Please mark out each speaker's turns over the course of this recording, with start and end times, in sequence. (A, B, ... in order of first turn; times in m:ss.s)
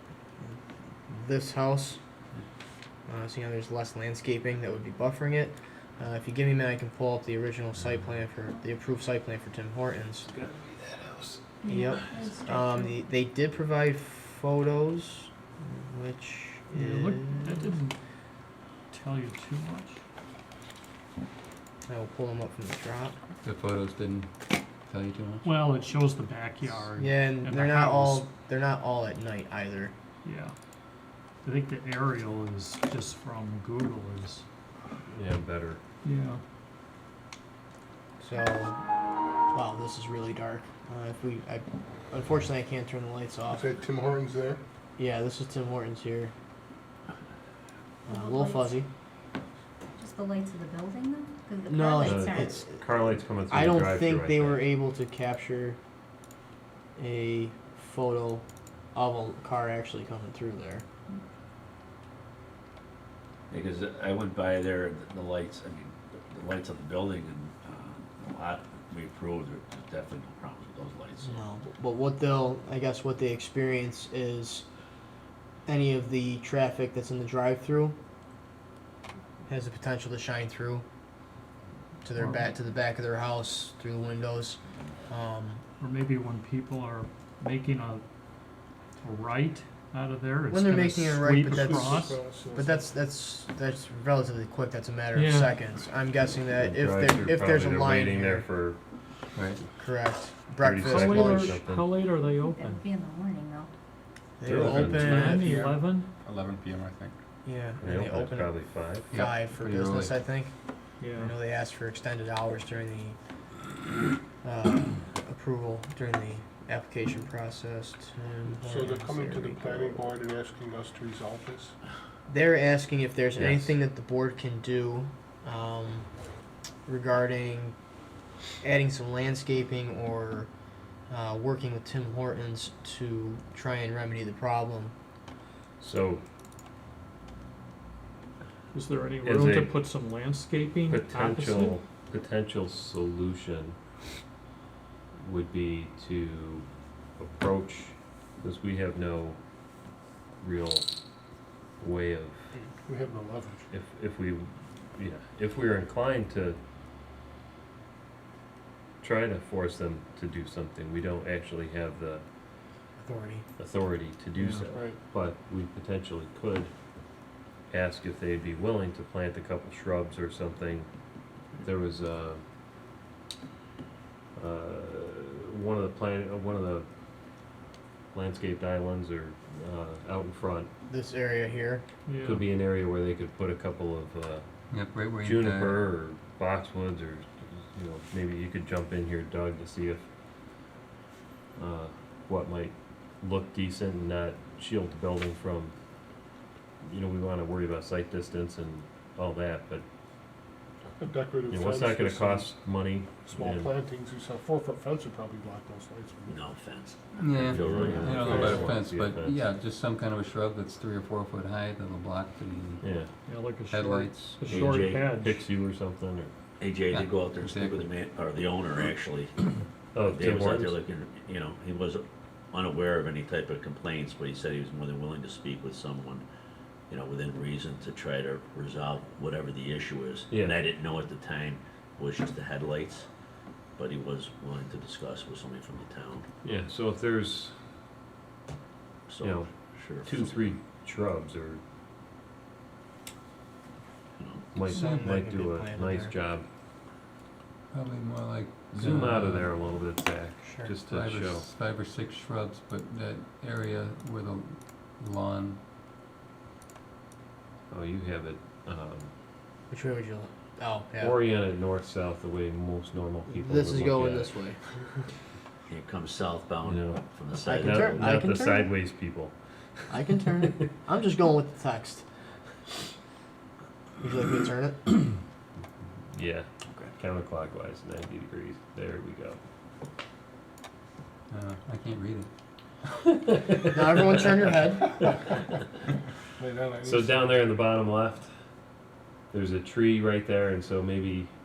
0:00.4-0:02.0 A
0:03.1-0:10.3 A
0:10.2-0:12.3 B
0:11.6-0:13.0 C
0:11.7-0:17.8 A
0:16.7-0:18.0 D
0:18.9-0:20.0 D
0:21.9-0:23.2 A
0:23.4-0:25.5 E
0:25.4-0:28.3 D
0:27.0-0:29.9 A
0:30.2-0:30.6 D
0:31.4-0:34.4 D
0:35.1-0:35.8 B
0:36.0-0:36.4 D
0:38.2-0:38.8 A
0:39.5-0:43.6 A
0:43.5-0:44.6 F
0:45.0-0:46.3 A
0:48.1-0:48.9 A
0:48.1-0:48.8 C
0:50.0-0:52.7 C
0:51.7-0:55.8 A
0:52.0-0:54.7 B
0:57.0-1:00.8 A
1:03.5-1:11.4 G
1:11.2-1:14.6 A
1:15.7-1:18.0 A
1:19.5-1:20.8 A
1:22.0-1:25.6 A
1:22.2-1:22.5 D
1:25.8-1:28.0 D
1:29.0-1:32.2 D
1:30.5-1:38.5 A
1:31.4-1:32.9 F
1:35.1-1:35.6 D
1:36.6-1:38.8 B
1:39.4-1:39.6 E
1:39.8-1:41.6 A
1:40.6-1:41.9 B
1:40.8-1:42.8 D
1:42.3-1:43.7 C
1:44.4-1:45.5 A
1:44.4-1:45.4 B
1:44.9-1:46.1 D
1:46.3-1:47.1 E
1:47.4-1:48.6 A
1:47.8-1:49.1 B
1:49.1-1:50.1 E
1:49.1-1:53.2 A
1:51.0-1:51.4 D
1:54.4-2:00.1 A
1:58.5-2:01.8 F
2:02.3-2:06.1 A
2:03.4-2:03.7 B
2:06.9-2:07.8 A
2:08.6-2:10.5 A
2:11.1-2:14.9 A
2:15.8-2:16.2 B
2:18.7-2:21.8 D
2:19.2-2:19.8 B
2:20.9-2:23.8 B
2:25.2-2:26.6 B
2:27.2-2:29.4 B
2:30.4-2:30.9 B
2:31.8-2:32.5 B
2:32.6-2:33.7 F
2:33.7-2:36.6 B
2:39.0-2:42.2 B
2:43.0-2:43.5 A
2:43.6-2:46.7 B
2:44.4-2:44.6 D
2:44.6-2:45.0 F
2:47.7-2:50.9 B
2:51.6-2:52.4 B
2:54.4-2:56.9 B
2:58.1-3:00.7 B
3:00.9-3:01.8 A
3:02.1-3:02.5 D
3:02.2-3:04.4 B
3:04.7-3:05.9 E
3:05.2-3:10.0 B
3:11.6-3:15.8 B
3:16.8-3:19.8 B
3:21.0-3:22.5 F
3:21.5-3:23.7 B
3:23.2-3:26.4 F
3:26.3-3:28.6 G
3:27.2-3:32.8 E
3:27.5-3:29.4 B
3:27.5-3:28.7 F
3:32.8-3:33.1 B
3:33.2-3:35.4 D
3:33.7-3:34.4 E
3:34.4-3:35.3 G
3:34.5-3:36.3 B
3:36.6-3:39.4 G
3:36.9-3:37.9 E
3:39.9-3:40.8 B
3:40.0-3:46.3 G
3:46.9-3:53.1 G
3:50.3-3:50.6 B
3:53.8-3:56.3 G
3:56.4-3:57.6 B
3:59.1-4:00.5 G
3:59.2-3:59.5 B
4:00.0-4:01.6 B
4:04.2-4:04.4 G
4:04.5-4:06.5 B
4:04.6-4:06.1 A
4:07.7-4:09.5 E
4:08.7-4:11.5 B
4:10.4-4:10.7 A
4:10.9-4:15.6 E
4:17.7-4:19.1 B
4:19.7-4:21.2 A
4:21.0-4:24.3 B
4:23.3-4:24.6 A
4:25.7-4:28.2 G
4:26.6-4:27.0 B
4:27.5-4:28.7 A
4:27.6-4:30.7 B
4:29.9-4:32.0 A
4:34.0-4:35.0 A
4:36.1-4:36.5 B
4:36.7-4:37.0 A
4:37.0-4:39.4 B
4:41.3-4:42.3 E
4:43.2-4:43.8 B
4:43.7-4:45.0 A
4:46.4-4:47.4 F
4:46.8-4:48.3 B
4:49.3-4:51.3 B